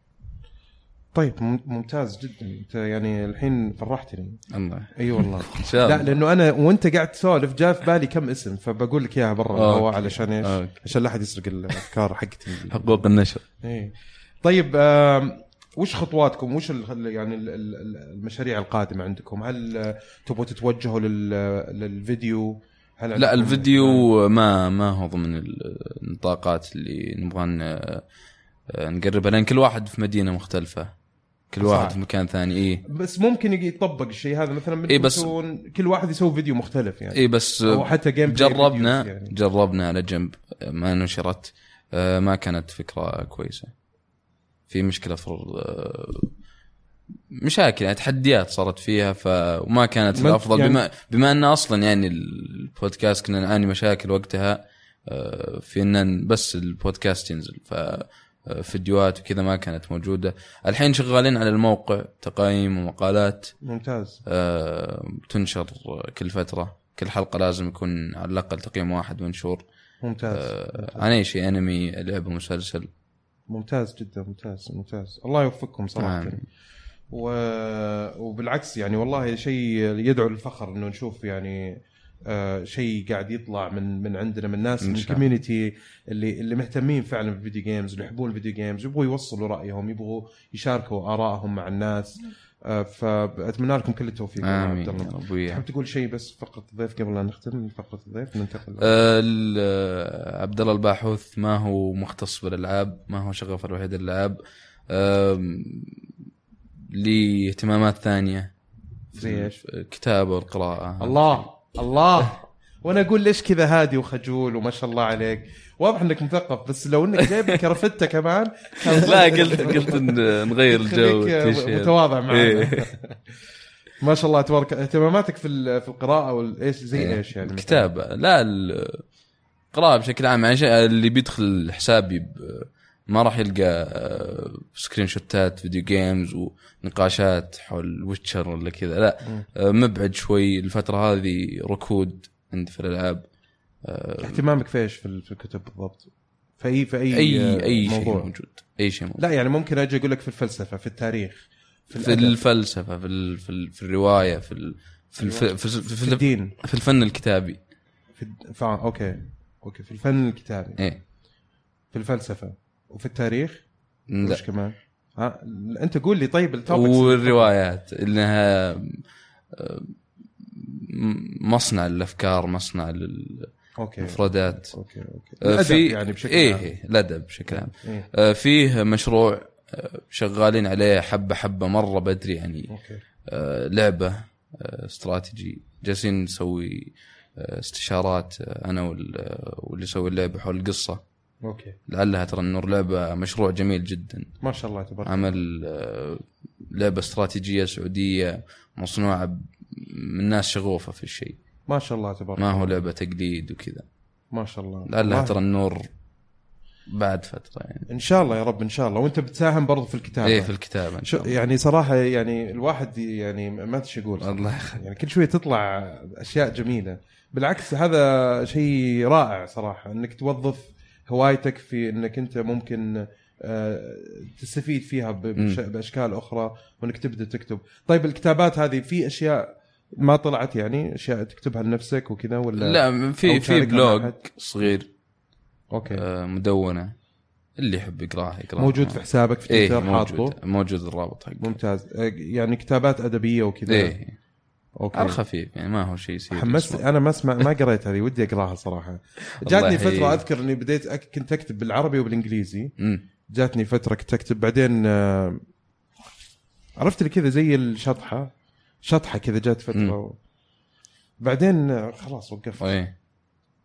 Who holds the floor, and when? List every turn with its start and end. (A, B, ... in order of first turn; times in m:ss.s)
0:01.1-0:04.4 A
0:04.5-0:06.1 B
0:04.9-0:13.0 A
0:09.5-0:10.8 B
0:12.7-0:13.4 B
0:13.6-0:24.1 A
0:23.1-0:28.0 B
0:28.7-0:30.9 B
0:31.5-0:32.8 B
0:31.6-0:32.0 A
0:32.8-0:39.3 A
0:34.9-0:35.3 B
0:37.1-0:43.7 B
0:44.7-0:46.3 B
0:47.3-1:03.5 B
0:50.1-0:50.8 A
1:03.6-1:04.2 A
1:04.2-1:09.6 B
1:10.0-1:11.1 A
1:10.3-1:12.9 B
1:13.5-1:16.4 A
1:16.0-1:16.4 B
1:17.1-1:39.1 A
1:24.8-1:25.2 B
1:34.4-1:35.6 B
1:38.8-1:44.4 B
1:44.9-1:46.0 B
1:46.9-1:48.5 B
1:49.1-1:51.4 B
1:49.1-1:49.6 A
1:51.0-2:03.2 A
1:58.8-2:02.8 B
2:04.0-2:07.9 A
2:07.0-2:09.0 B
2:09.7-2:23.2 B
2:23.8-2:24.4 B
2:24.2-2:26.1 A
2:26.6-2:28.3 A
2:27.1-2:29.2 B
2:29.2-2:32.4 A
2:32.0-2:37.6 B
2:35.2-2:36.5 A
2:38.2-2:40.8 A
2:41.9-2:43.6 A
2:44.1-2:44.4 B
2:44.2-2:47.5 A
2:46.7-2:54.7 B
2:53.8-2:56.7 A
2:55.4-3:02.7 B
2:57.5-2:58.1 A
3:02.7-3:03.0 A
3:03.2-3:11.0 B
3:11.4-3:11.8 A
3:11.9-3:14.3 B
3:14.4-3:15.3 A
3:15.0-3:21.4 B
3:21.7-3:22.8 A
3:22.4-3:23.8 B
3:24.3-3:25.4 A
3:24.9-3:25.9 B
3:26.9-3:27.9 B
3:27.9-3:54.2 A
3:30.2-3:31.3 B
3:34.2-3:34.8 B
3:52.6-3:54.9 B
3:55.7-3:56.0 A
3:55.9-3:56.9 B
3:57.6-4:01.6 B
3:58.6-4:00.4 A
4:01.4-4:04.0 A
4:03.7-4:04.2 B
4:04.8-4:05.2 A
4:04.9-4:06.8 B
4:06.3-4:12.7 A
4:09.4-4:10.2 B
4:12.8-4:13.0 B
4:13.3-4:15.4 A
4:16.8-4:18.3 A
4:18.8-4:20.2 A
4:21.2-4:22.8 A
4:22.6-4:22.9 B